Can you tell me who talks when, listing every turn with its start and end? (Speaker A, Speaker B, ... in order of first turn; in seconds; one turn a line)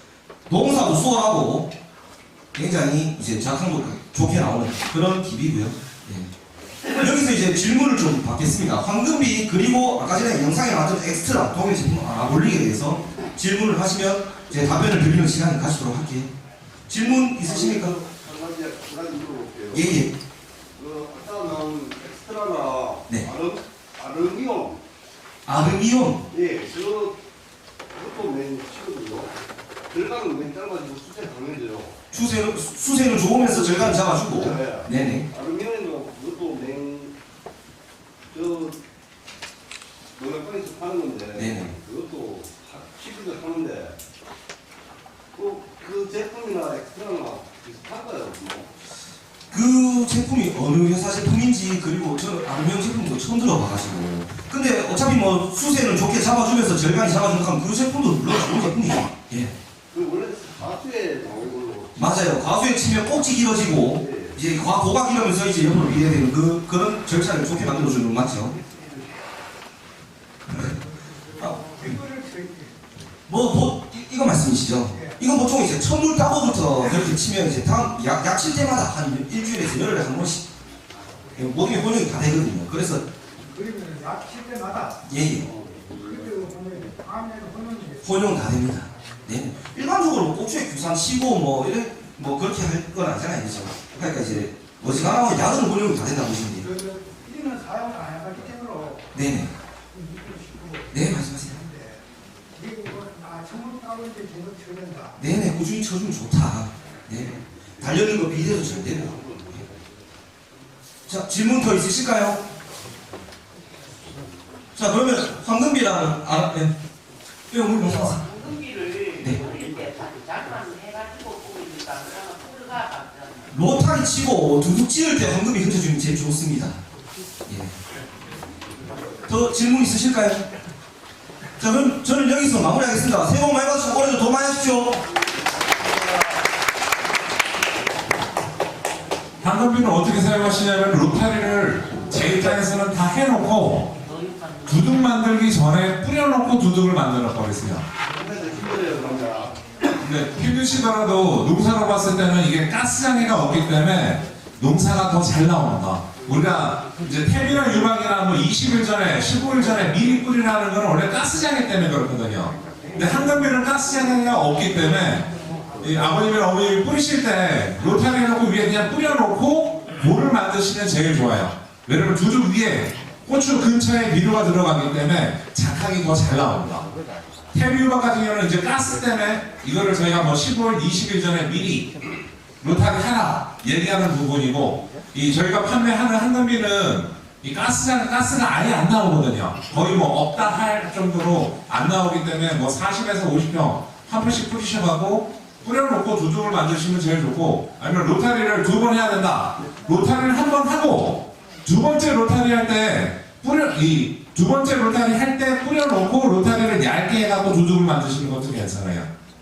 Speaker A: 0.5-1.7
Speaker A: 2.5-6.3
Speaker A: 6.9-16.3
Speaker A: 16.9-17.9
Speaker B: 17.0-20.1
Speaker A: 19.7-20.1
Speaker B: 20.8-24.8
Speaker A: 25.4-26.2
Speaker B: 26.3-27.2
Speaker B: 27.9-29.4
Speaker B: 29.9-31.9
Speaker A: 32.1-35.2
Speaker B: 33.3-37.1
Speaker B: 38.3-38.8
Speaker B: 40.1-44.0
Speaker A: 41.3-41.7
Speaker B: 45.3-48.7
Speaker A: 49.5-59.5
Speaker B: 59.9-62.4
Speaker A: 62.0-68.6
Speaker B: 63.8-64.4
Speaker A: 71.4-72.0
Speaker C: 71.5-72.7
Speaker A: 73.3-80.5
Speaker A: 81.3-83.0
Speaker C: 83.5-84.9
Speaker A: 85.0-85.5
Speaker B: 85.4-86.5
Speaker C: 86.2-88.0
Speaker A: 88.0-96.7
Speaker C: 96.6-99.0
Speaker A: 99.1-99.5
Speaker C: 100.0-100.9
Speaker A: 100.9-101.6
Speaker C: 101.5-101.8
Speaker C: 102.5-105.1
Speaker A: 105.2-109.4
Speaker B: 107.8-109.9
Speaker A: 111.1-112.4
Speaker A: 114.7-116.7
Speaker A: 117.5-118.4
Speaker D: 118.4-123.4
Speaker A: 123.5-126.8
Speaker A: 127.5-127.8
Speaker A: 129.3-130.4
Speaker A: 131.6-135.0
Speaker E: 139.4-143.9
Speaker E: 144.6-147.8
Speaker B: 148.1-149.6
Speaker E: 150.0-176.9
Speaker E: 177.5-181.9
Speaker E: 182.6-209.1